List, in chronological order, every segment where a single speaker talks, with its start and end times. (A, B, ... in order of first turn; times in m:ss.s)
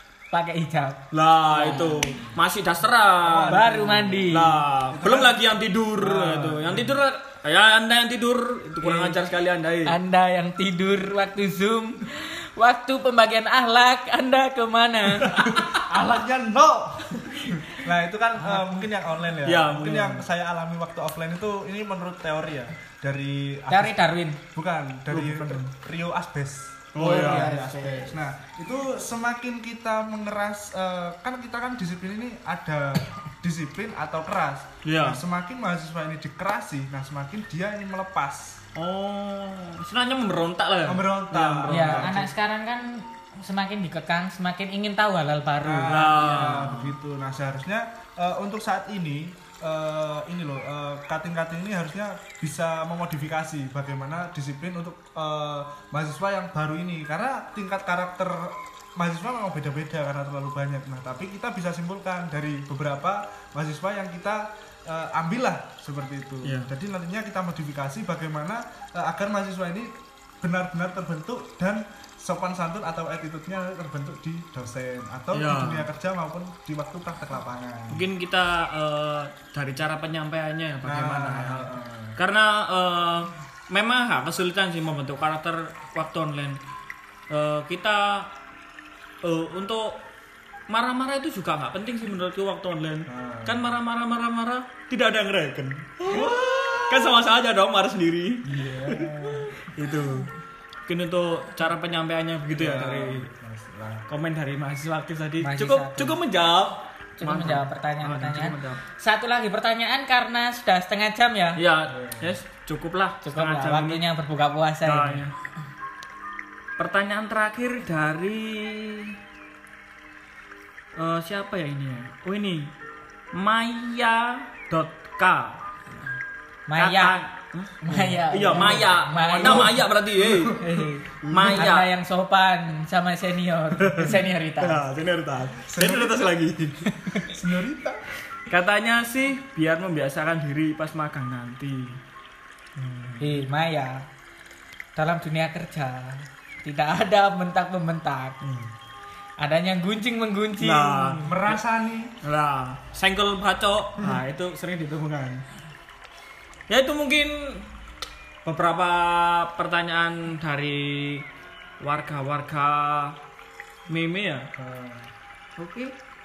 0:00.3-0:02.1 A
0:01.1-0:03.7 B
0:03.2-0:05.4 C
0:03.5-0:04.6 A
0:04.3-0:10.0 B
0:06.0-0:07.0 C
0:08.8-0:09.2 A
0:09.9-0:15.7 A
0:15.3-0:38.6 C
0:19.4-0:20.3 B
0:23.7-0:24.4 A
0:25.1-0:25.7 B
0:26.9-0:27.6 B
0:27.0-0:28.2 A
0:34.8-0:35.2 B
0:38.8-0:42.3 B
0:40.8-0:42.3 C
0:41.7-0:46.3 A
0:45.6-1:18.1 C
0:45.9-0:47.0 B
1:06.4-1:06.7 B
1:15.3-1:15.9 B
1:17.9-1:26.6 B
1:20.8-1:22.2 C
1:27.3-1:28.3 B
1:29.2-1:30.0 B
1:30.7-1:40.3 B
1:33.1-1:33.8 C
1:36.1-1:37.2 C
1:38.4-1:39.6 C
1:40.9-1:43.3 B
1:42.5-1:44.1 C
1:44.1-1:48.8 B
1:45.4-1:46.2 A
1:47.2-1:51.6 A
1:51.6-1:54.0 B
1:51.9-1:52.4 C
1:53.2-1:55.3 A
1:54.8-1:55.3 B
1:56.8-1:59.2 B
2:01.0-2:02.7 B
2:03.3-2:05.6 B
2:06.7-2:07.2 A
2:06.8-2:10.6 B
2:07.8-2:11.7 C
2:07.9-2:09.8 A
2:10.6-2:14.8 A
2:11.3-2:11.9 B
2:13.8-2:17.3 B
2:15.7-2:16.2 C
2:17.3-2:18.1 C
2:18.5-2:22.0 B
2:22.8-2:23.4 B
2:23.2-2:24.1 A
2:25.0-2:28.4 A
2:28.4-2:28.7 B
2:29.4-2:31.2 A
2:30.6-2:31.6 B
2:31.2-2:32.2 C
2:32.2-2:35.4 B
2:36.7-2:37.7 B
2:38.4-2:41.2 B
2:41.8-2:43.2 B
2:43.9-2:44.5 B
2:44.6-2:45.1 C
2:45.6-2:45.9 B